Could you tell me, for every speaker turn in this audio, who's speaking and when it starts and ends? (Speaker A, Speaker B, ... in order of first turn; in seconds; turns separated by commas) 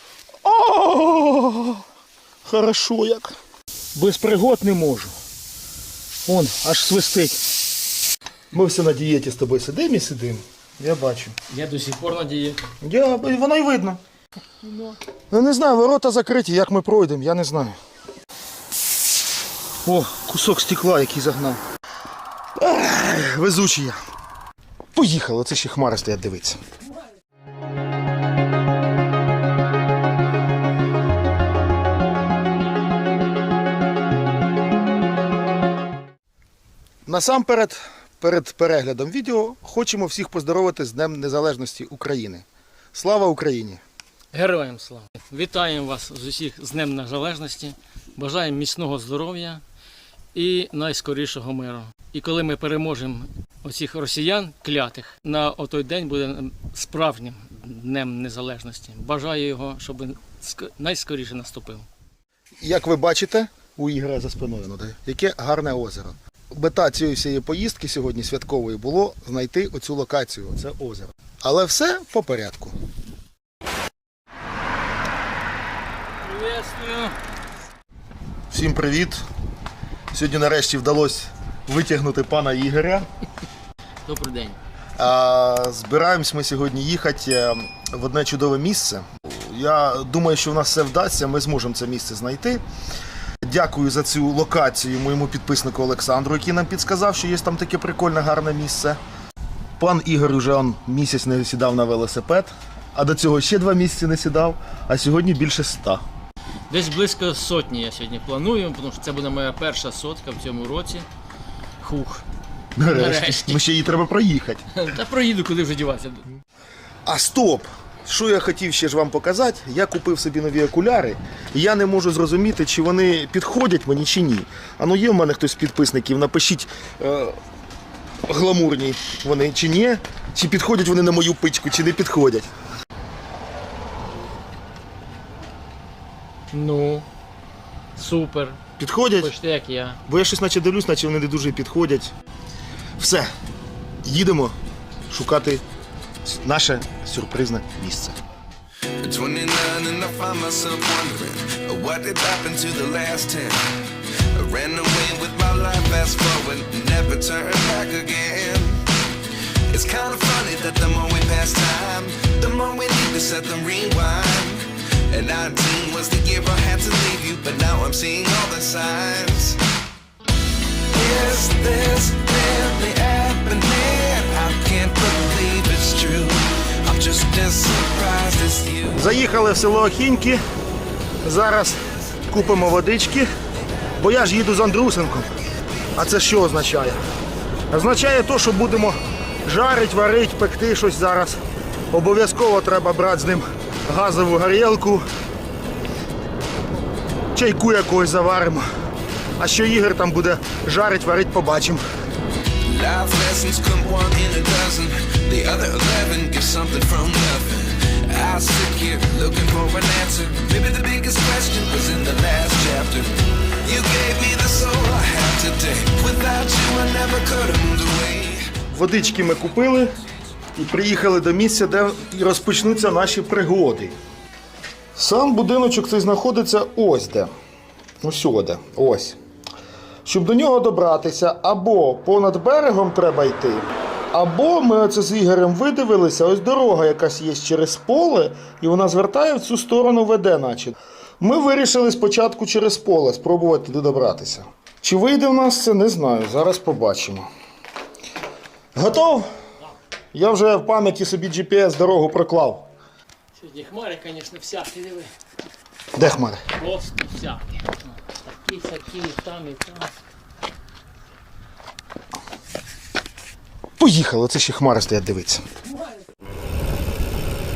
Speaker A: 0.4-1.8, Speaker A: 2.5-3.3, Speaker A: 4.0-5.2, Speaker A: 6.3-7.4, Speaker A: 8.5-11.4, Speaker B: 11.5-12.6, Speaker A: 12.8-14.0, Speaker B: 14.6-15.0, Speaker A: 15.3-17.8, Speaker A: 19.9-21.6, Speaker A: 22.6-24.0, Speaker A: 24.9-26.6, Speaker A: 37.1-43.8, Speaker B: 44.3-49.6, Speaker B: 50.3-61.9, Speaker A: 62.6-72.8, Speaker B: 76.2-77.2, Speaker A: 78.5-79.2, Speaker A: 80.1-83.1, Speaker B: 84.0-84.6, Speaker A: 85.0-92.6, Speaker A: 93.4-99.0, Speaker A: 99.8-106.0, Speaker B: 106.7-111.1, Speaker B: 111.8-112.2, Speaker A: 112.8-114.7, Speaker B: 112.9-113.7, Speaker B: 114.7-116.3, Speaker A: 117.0-127.4, Speaker A: 128.3-132.5, Speaker B: 136.5-137.1, Speaker B: 138.0-138.6, Speaker A: 138.8-139.3, Speaker B: 139.2-140.0, Speaker A: 140.1-142.1, Speaker A: 143.0-143.3, Speaker A: 144.0-144.6, Speaker A: 145.1-145.6, Speaker A: 146.2-148.2, Speaker C: 149.0-158.9, Speaker C: 159.7-169.6, Speaker C: 170.9-179.0, Speaker A: 178.9-180.4, Speaker A: 181.2-183.3, Speaker A: 184.0-185.4, Speaker A: 185.9-187.0, Speaker A: 187.7-191.4, Speaker A: 191.9-195.1, Speaker A: 197.3-198.7, Speaker A: 199.4-201.8, Speaker C: 202.7-218.6, Speaker A: 218.7-219.9, Speaker A: 220.6-224.0, Speaker A: 224.9-227.3, Speaker A: 228.0-229.2, Speaker A: 230.1-247.3, Speaker A: 248.8-249.3, Speaker A: 250.1-252.7, Speaker B: 253.3-255.1, Speaker A: 255.9-256.4, Speaker B: 256.6-259.9, Speaker A: 263.8-265.4